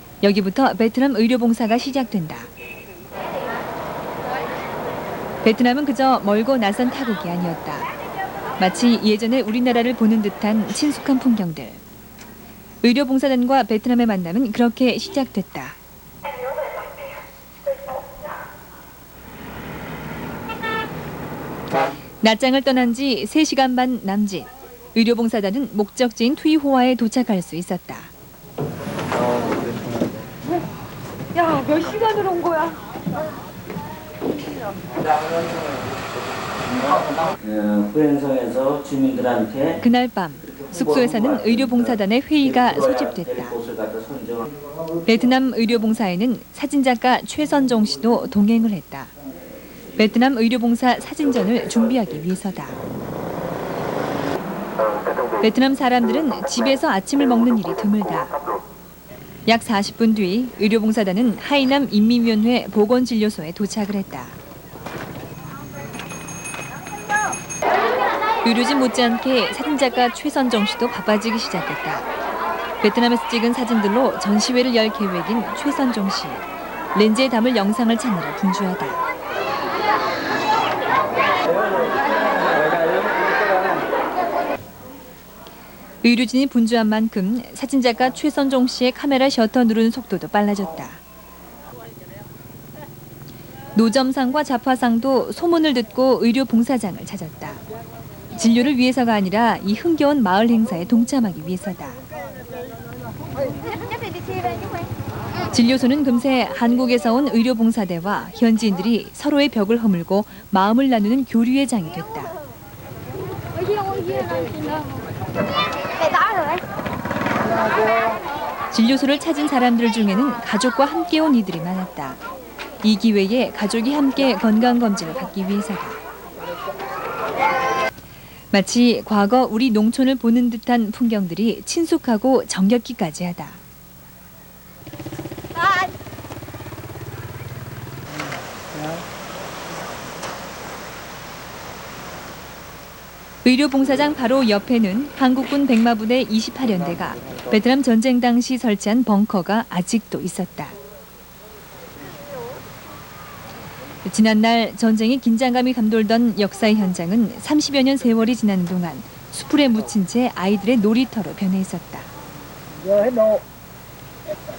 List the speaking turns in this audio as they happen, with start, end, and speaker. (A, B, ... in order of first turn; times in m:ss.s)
0:00.2-0:02.5 A
0:05.4-0:07.9 A
0:08.6-0:11.8 A
0:12.8-0:15.8 A
0:22.2-0:28.1 A
0:29.2-0:30.0 B
0:31.4-0:32.7 C
0:36.7-0:39.8 B
0:39.8-0:43.6 A
0:40.5-0:41.8 B
0:42.7-0:44.5 B
0:45.0-0:49.1 A
0:50.0-0:52.8 A
0:55.4-0:58.3 A
0:59.4-1:04.4 A
1:08.4-1:12.1 A
1:12.8-1:19.0 A
1:26.0-1:31.0 A
1:33.8-1:37.6 A
1:38.3-1:42.0 A
1:45.5-1:52.4 A
1:53.8-1:54.8 C
1:56.1-1:56.5 C
1:58.7-2:02.2 A
2:02.8-2:06.0 A
2:08.5-2:13.6 A
2:23.4-2:30.8 A
2:34.0-2:42.1 A
2:42.9-2:43.4 C